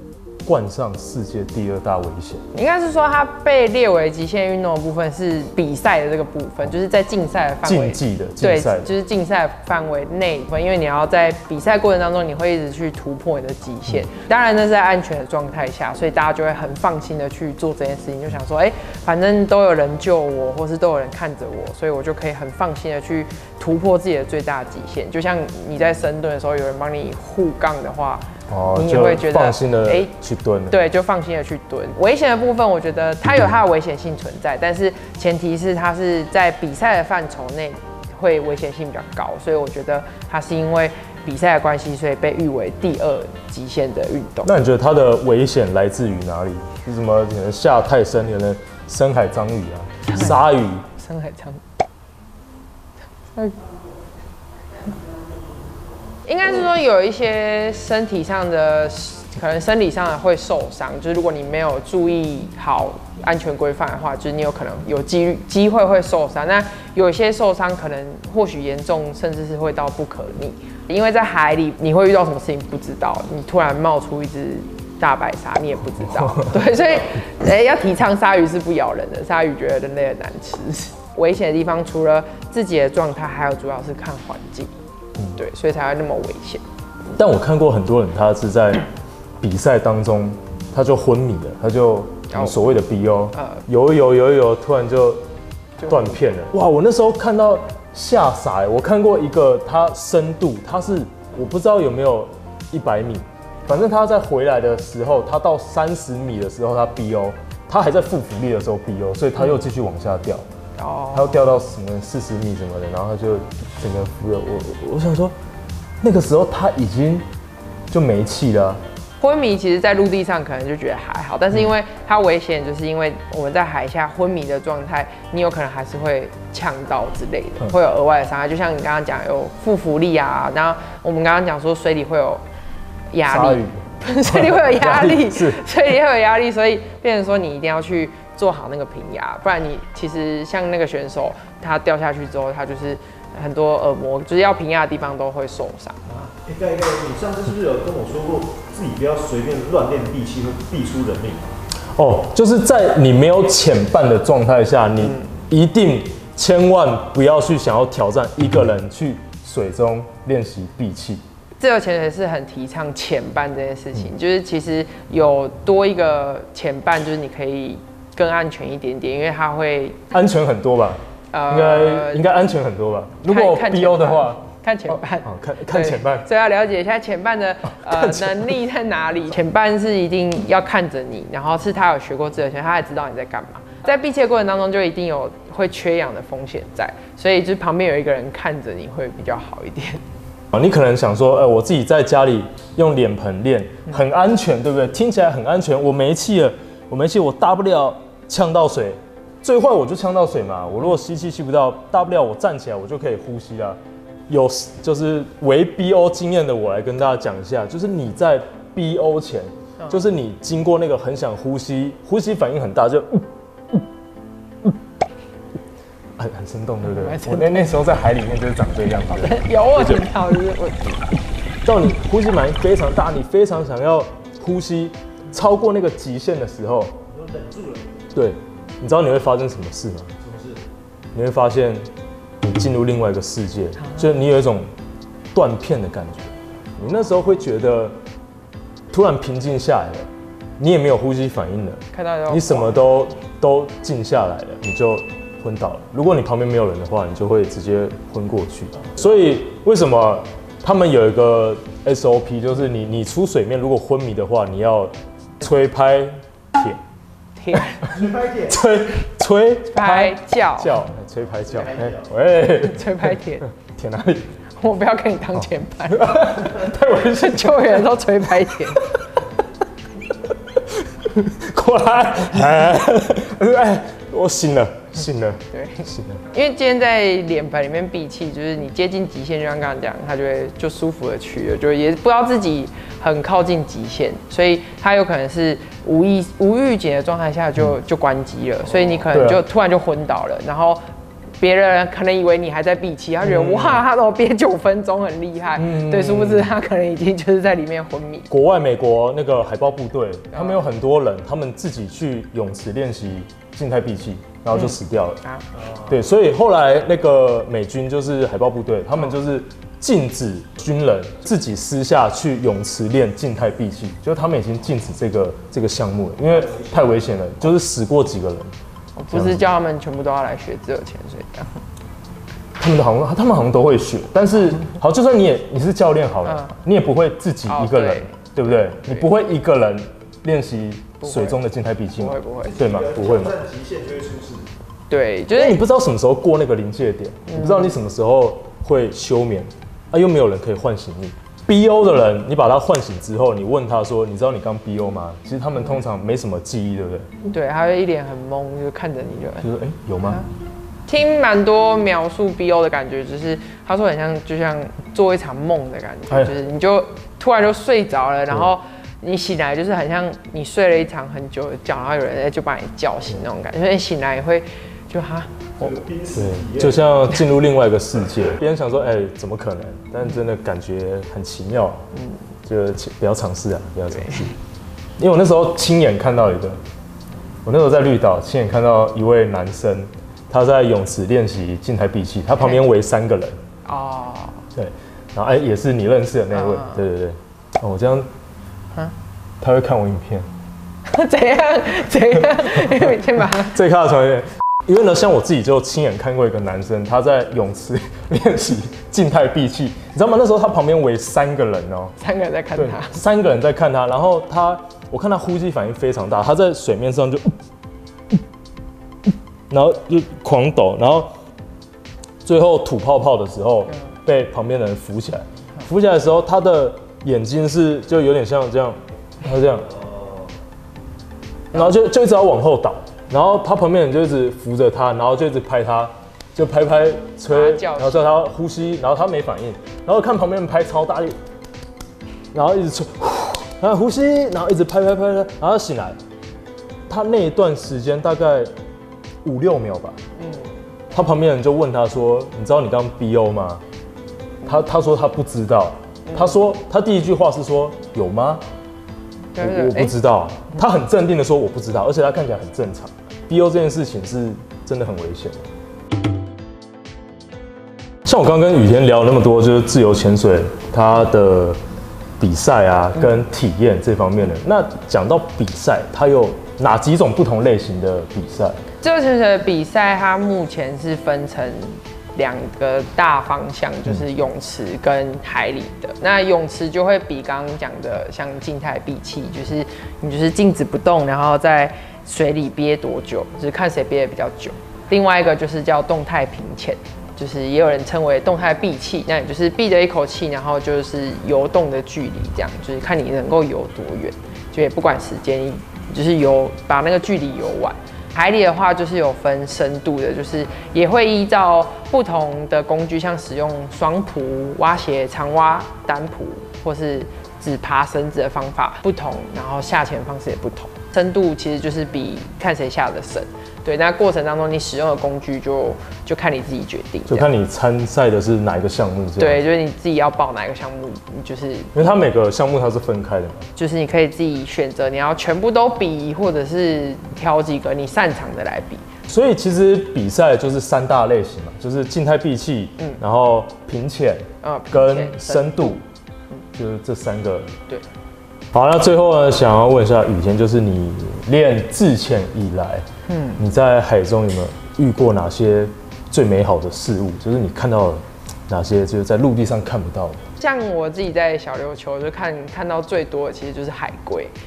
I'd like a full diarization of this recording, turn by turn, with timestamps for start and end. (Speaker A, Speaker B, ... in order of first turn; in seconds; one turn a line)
Speaker A: 0.4-2.4
Speaker B: 2.5-30.1
Speaker A: 7.6-8.9
Speaker A: 28.5-30.8
Speaker B: 30.7-44.5
Speaker A: 44.4-50.8
Speaker B: 50.0-51.6
Speaker B: 56.2-84.7
Speaker A: 76.0-76.7
Speaker B: 85.4-86.6
Speaker A: 87.2-88.8
Speaker A: 89.4-95.2
Speaker B: 92.3-92.7
Speaker B: 93.3-93.6
Speaker B: 95.8-96.2
Speaker A: 95.9-110.5
Speaker B: 110.8-111.4
Speaker A: 111.1-115.3
Speaker A: 116.0-117.2
Speaker A: 117.9-118.8
Speaker B: 119.2-132.4
Speaker B: 133.1-146.2
Speaker A: 133.3-135.7
Speaker C: 146.4-151.5
Speaker A: 152.0-161.2
Speaker B: 155.0-155.3
Speaker B: 161.6-170.0
Speaker A: 170.1-176.3
Speaker B: 171.3-172.4
Speaker B: 173.2-190.0
Speaker A: 177.7-178.6
Speaker A: 190.5-213.8
Speaker B: 209.8-210.1
Speaker A: 216.2-220.2
Speaker B: 216.8-217.8
Speaker B: 219.1-221.0
Speaker A: 221.6-227.0
Speaker C: 227.1-228.1
Speaker A: 228.1-230.1
Speaker C: 230.2-230.6
Speaker A: 231.1-231.9
Speaker A: 232.4-234.7
Speaker A: 235.3-237.9
Speaker A: 238.9-256.8
Speaker B: 241.9-242.9
Speaker B: 257.4-257.8
Speaker A: 257.5-264.3
Speaker C: 257.9-258.6
Speaker B: 259.7-260.8
Speaker C: 261.4-262.1
Speaker B: 262.4-263.4
Speaker B: 264.6-269.0
Speaker A: 265.3-267.8
Speaker A: 268.7-269.0
Speaker A: 270.3-276.2
Speaker B: 275.5-290.8
Speaker A: 289.1-289.4
Speaker B: 291.4-298.3
Speaker A: 293.2-293.8
Speaker A: 295.6-296.5
Speaker A: 298.3-305.2
Speaker B: 300.3-300.6
Speaker B: 304.5-305.4
Speaker A: 305.9-318.5
Speaker C: 316.3-317.0
Speaker B: 319.0-321.6
Speaker A: 319.1-319.4
Speaker A: 322.6-333.4
Speaker B: 326.2-326.6
Speaker B: 327.5-328.1
Speaker B: 331.0-331.4
Speaker B: 332.0-332.6
Speaker C: 332.4-334.5
Speaker B: 334.9-335.6
Speaker A: 335.3-347.2
Speaker B: 337.3-337.8
Speaker B: 347.3-349.5
Speaker A: 349.4-350.2
Speaker B: 350.9-365.7
Speaker A: 356.1-356.3
Speaker C: 365.6-366.9
Speaker A: 366.1-371.8
Speaker B: 371.9-372.2
Speaker A: 372.4-374.3
Speaker B: 373.9-374.3
Speaker A: 375.0-376.6
Speaker A: 377.4-383.4
Speaker B: 383.6-384.4
Speaker A: 384.5-388.1
Speaker B: 386.3-386.8
Speaker A: 389.4-390.3
Speaker B: 390.9-393.6
Speaker A: 392.3-401.9
Speaker B: 402.0-403.0
Speaker A: 402.6-407.3
Speaker A: 409.5-411.1
Speaker A: 412.2-419.7
Speaker C: 419.7-420.3
Speaker A: 421.5-431.1
Speaker B: 427.3-428.2
Speaker A: 432.3-436.0
Speaker A: 436.9-438.5
Speaker A: 439.2-440.0
Speaker B: 440.2-440.5
Speaker A: 440.9-443.6
Speaker A: 444.4-448.4
Speaker B: 446.1-446.4
Speaker B: 449.3-449.9
Speaker A: 449.4-455.4
Speaker A: 458.0-461.6
Speaker A: 462.2-468.6
Speaker B: 468.8-517.3
Speaker A: 517.1-519.4
Speaker B: 519.2-521.9
Speaker A: 521.7-523.5
Speaker B: 523.5-528.8
Speaker A: 529.1-535.8
Speaker B: 534.4-535.8
Speaker A: 536.5-537.5
Speaker A: 538.5-550.3
Speaker B: 543.1-543.4
Speaker B: 550.4-554.3